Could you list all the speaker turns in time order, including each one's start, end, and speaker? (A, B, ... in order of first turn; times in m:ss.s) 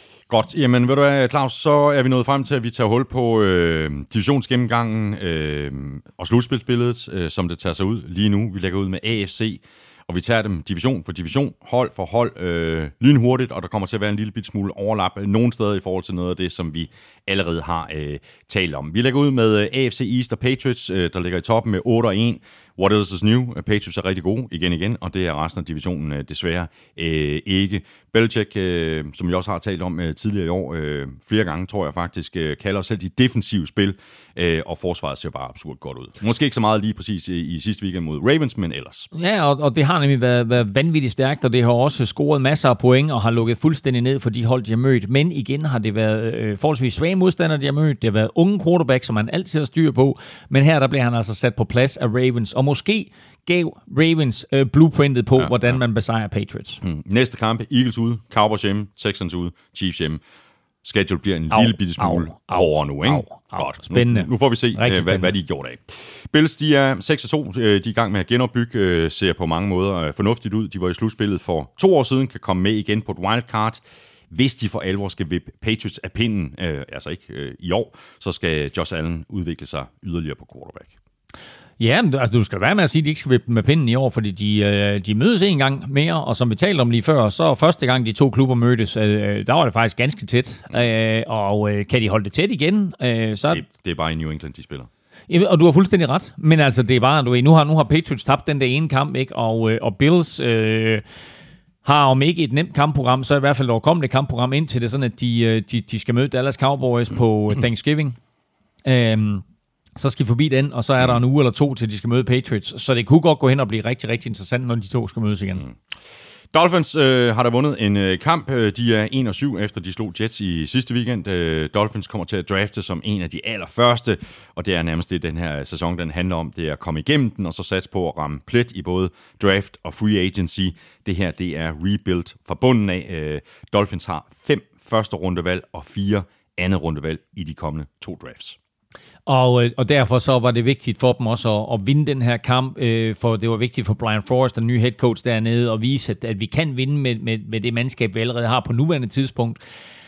0:00.3-0:39.1 A
0:39.1-0:56.8 B
0:56.8-1:00.2 A
1:00.8-1:20.9 A
1:01.5-1:05.3 B
1:21.8-1:33.6 B
1:33.5-1:34.9 A
1:35.3-1:41.0 B
1:41.8-1:48.2 B
1:48.8-1:49.4 B
1:50.0-1:55.6 B
1:56.5-2:18.6 A
2:19.3-2:29.6 B